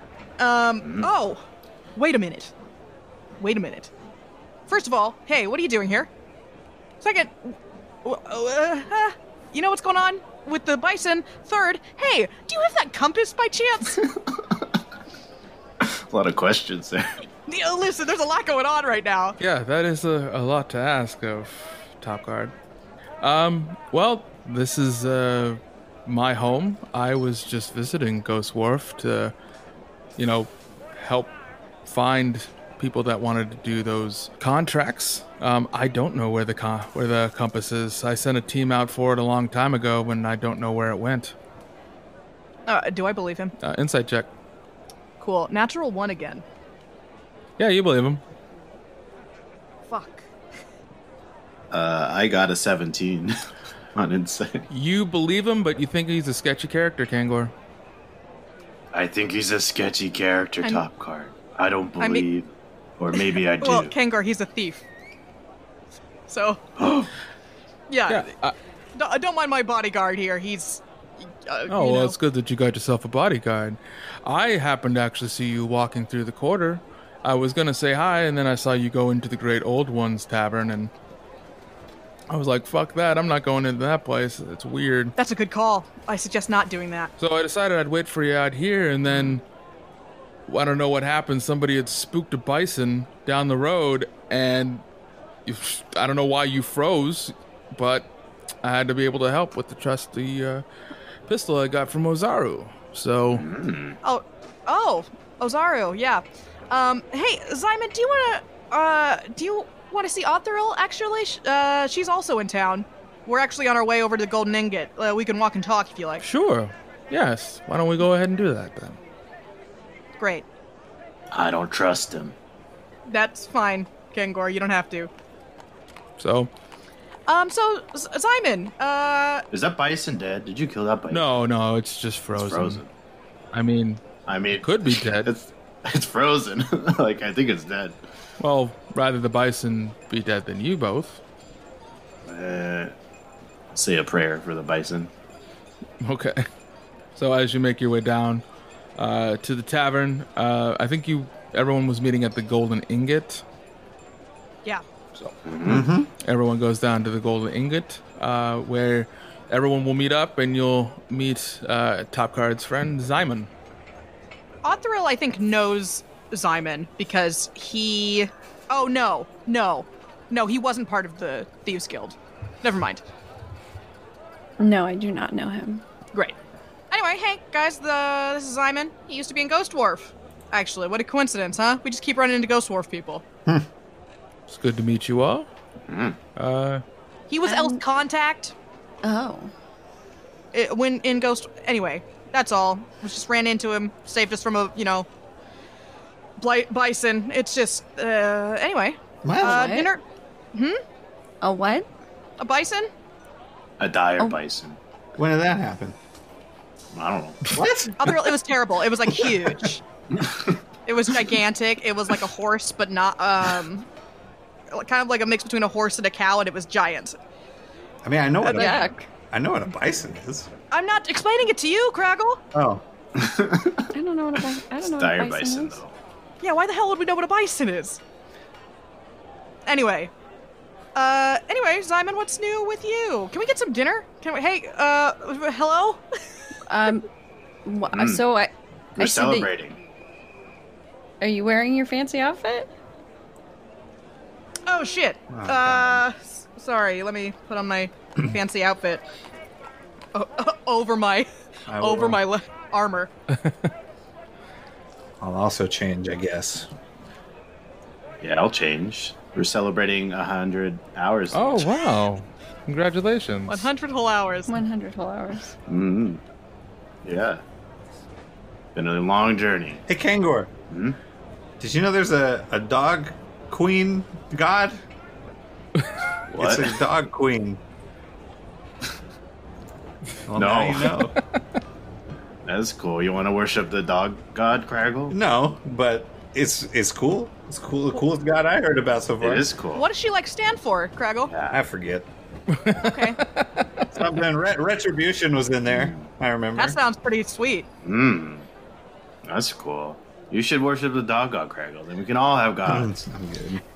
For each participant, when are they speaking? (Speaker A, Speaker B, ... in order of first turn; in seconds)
Speaker A: 0.4-1.4, 1.9-2.5, 3.4-3.9, 4.7-6.1, 7.0-14.0, 17.5-19.4, 42.7-43.5, 45.2-46.4, 49.9-50.3, 62.0-62.2, 63.6-64.8, 66.3-66.6, 67.9-68.3, 69.0-72.2, 85.2-87.1, 104.0-116.2, 120.2-120.5, 123.1-125.1, 127.3-129.4, 164.6-173.0, 176.9-183.2, 187.3-188.5, 190.5-195.1, 196.4-200.0, 200.5-200.8, 202.4-202.9, 208.0-209.8, 210.8-213.9, 214.7-217.2, 218.4-218.9, 220.7-222.4, 226.4-228.0, 229.7-230.1, 230.9-236.0, 244.7-249.0, 250.1-251.3, 251.8-253.1, 263.5-264.5, 289.7-291.3, 292.8-293.2, 296.6-297.7
Speaker B: 0.8-1.1, 14.0-14.4, 15.8-17.1, 51.7-53.4, 53.9-54.6, 58.9-63.9, 66.8-67.1, 103.3-104.0, 121.3-122.3, 129.5-131.2, 132.3-132.9, 134.3-138.0, 142.2-142.9, 143.7-145.1, 155.4-155.8, 185.9-186.2, 203.8-204.8, 206.9-207.5, 223.2-223.9, 224.8-225.9, 237.9-238.2, 239.0-239.8, 258.2-261.7, 265.7-266.2, 267.0-267.4, 268.7-269.8, 270.7-271.0, 276.3-276.8, 280.3-280.9, 282.4-285.1, 289.2-289.8, 291.3-291.6, 295.7-296.1, 297.8-298.5, 299.2-302.9
Speaker C: 19.4-22.5, 23.2-29.3, 30.2-31.3, 31.8-41.3, 43.6-44.3, 47.6-48.2, 54.7-57.5, 68.1-68.5, 71.7-80.9, 82.3-85.1, 87.2-89.4, 90.5-94.8, 95.5-98.1, 98.6-100.6, 101.3-103.5, 116.2-119.0, 126.2-126.5, 131.1-132.8, 133.5-134.0, 134.6-135.3, 138.4-141.2, 146.0-146.5, 147.1-148.4, 148.9-153.4, 156.2-163.5, 184.5-185.5, 186.3-186.8, 253.3-253.7, 261.3-263.7, 292.5-293.7
Speaker D: 155.6-156.1, 199.2-199.7, 205.2-205.9, 207.4-208.3, 218.0-220.5, 222.5-222.8, 245.3-246.0, 251.7-252.2, 255.2-256.7, 269.9-270.5, 271.6-274.8, 276.4-277.6, 280.3-281.2, 285.1-289.5, 291.5-292.1, 293.9-296.8, 302.7-303.6
Speaker E: 174.6-175.8, 187.4-187.8, 189.0-189.5, 199.4-199.9, 201.4-201.9, 218.4-219.1, 223.9-225.8, 236.7-237.1, 237.6-239.5, 241.2-242.7, 264.5-265.5